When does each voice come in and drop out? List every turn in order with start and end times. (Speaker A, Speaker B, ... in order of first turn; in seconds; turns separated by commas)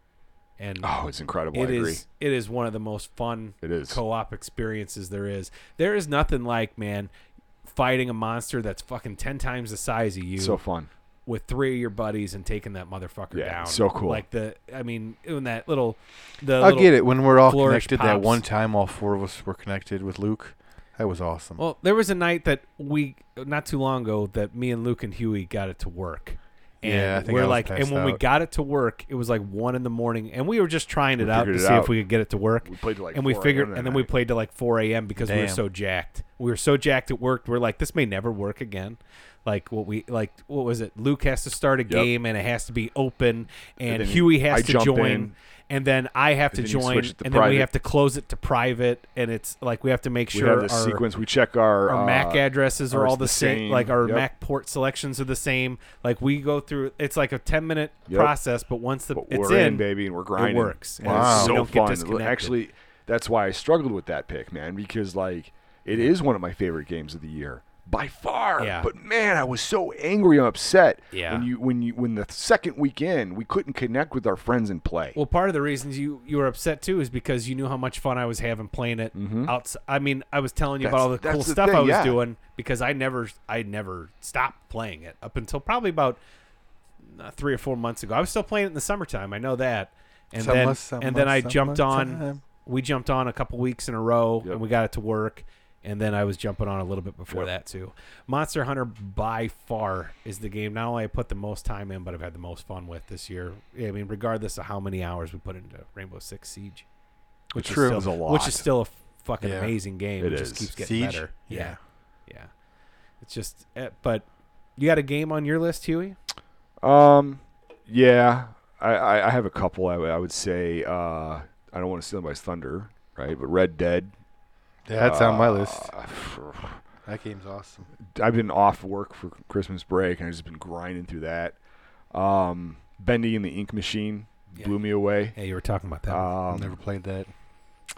Speaker A: 0.6-0.9, Speaker B: 0.8-2.0, Speaker A: 1.5-7.1, Speaker B: 3.6-4.0, Speaker A: 7.6-10.6, Speaker B: 10.4-10.9, Speaker A: 11.2-18.4, Speaker B: 13.3-14.2, Speaker C: 16.6-21.6, Speaker A: 21.6-51.0, Speaker C: 26.8-28.2, Speaker B: 31.2-31.9, Speaker B: 32.6-34.1, Speaker C: 35.2-35.6, Speaker B: 43.8-45.3, Speaker B: 46.5-47.7, Speaker B: 50.3-54.3, Speaker A: 51.9-62.6, Speaker B: 58.1-58.3, Speaker B: 59.1-75.2, Speaker C: 61.0-61.6, Speaker A: 68.6-68.9, Speaker A: 71.1-71.5, Speaker A: 75.1-86.2, Speaker B: 79.1-79.5, Speaker B: 80.8-82.2, Speaker A: 87.0-106.9, Speaker C: 90.3-92.4, Speaker A: 107.5-112.5, Speaker B: 107.6-108.7, Speaker C: 107.6-108.0, Speaker C: 109.4-109.7, Speaker B: 110.2-110.7, Speaker C: 110.8-111.8, Speaker A: 113.2-116.2, Speaker B: 116.8-124.1, Speaker C: 124.9-125.9, Speaker B: 125.0-126.8, Speaker C: 127.0-127.9, Speaker B: 128.1-131.6, Speaker B: 132.1-135.4, Speaker A: 135.3-136.3, Speaker B: 136.1-136.8, Speaker C: 136.5-137.3